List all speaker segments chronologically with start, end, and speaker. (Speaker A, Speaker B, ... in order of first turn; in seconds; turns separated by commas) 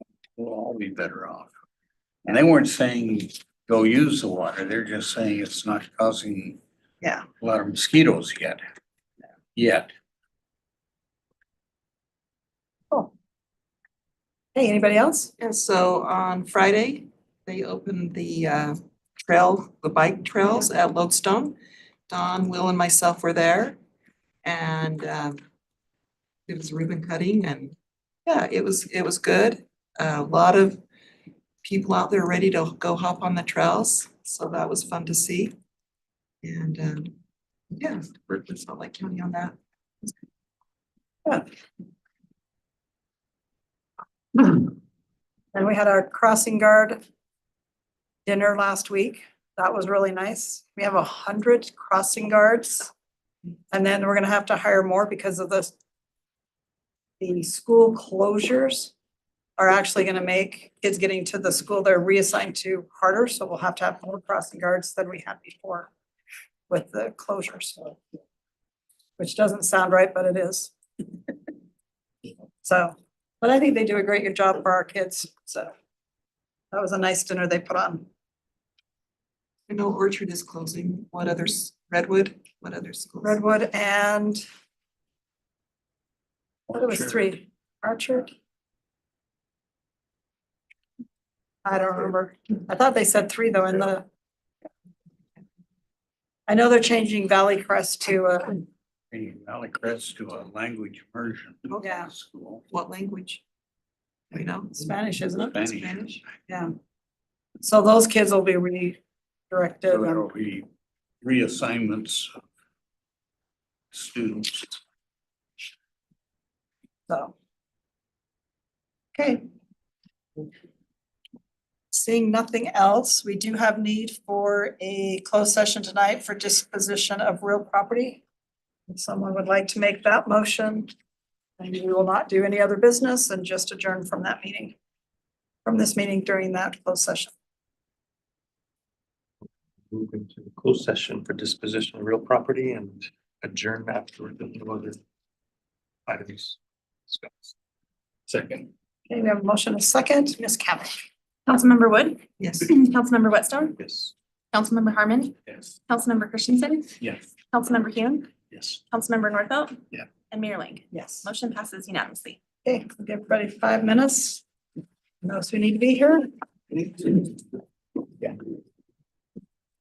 Speaker A: 0.3-1.5, Speaker A: 2.2-6.6, Speaker A: 7.4-8.6, Speaker A: 9.5-9.9, Speaker B: 14.5-15.3, Speaker C: 15.4-21.5, Speaker C: 22.1-23.8, Speaker C: 24.4-25.4, Speaker C: 26.5-27.7, Speaker C: 28.2-30.8, Speaker C: 31.6-35.5, Speaker C: 36.4-37.1, Speaker C: 37.8-40.1, Speaker B: 44.3-44.7, Speaker B: 45.5-47.0, Speaker B: 48.2-52.9, Speaker B: 53.7-55.7, Speaker B: 57.2-58.9, Speaker B: 59.6-65.9, Speaker B: 66.7-68.0, Speaker B: 69.2-70.7, Speaker B: 72.6-75.7, Speaker B: 76.7-78.0, Speaker C: 79.7-83.4, Speaker B: 83.2-84.4, Speaker B: 86.7-88.3, Speaker B: 91.6-94.1, Speaker B: 96.5-98.6, Speaker A: 99.1-102.6, Speaker B: 101.8-102.1, Speaker C: 102.7-103.4, Speaker C: 104.3-104.9, Speaker B: 104.8-105.6, Speaker A: 105.4-106.0, Speaker C: 105.6-106.2, Speaker B: 106.5-106.7, Speaker B: 107.6-109.0, Speaker B: 109.5-110.2, Speaker A: 109.9-110.7, Speaker A: 111.2-112.3, Speaker A: 113.9-114.8, Speaker B: 117.1-117.3, Speaker B: 119.1-119.4, Speaker B: 121.9-128.2, Speaker B: 128.9-130.9, Speaker B: 131.6-134.8, Speaker B: 135.6-137.3, Speaker D: 139.9-145.0, Speaker D: 146.1-147.5, Speaker B: 149.1-151.1, Speaker E: 151.5-153.8, Speaker C: 152.4-152.7, Speaker E: 154.5-157.0, Speaker E: 157.5-158.3, Speaker E: 158.9-162.4, Speaker B: 160.9-161.3, Speaker B: 162.6-164.4, Speaker B: 165.2-166.3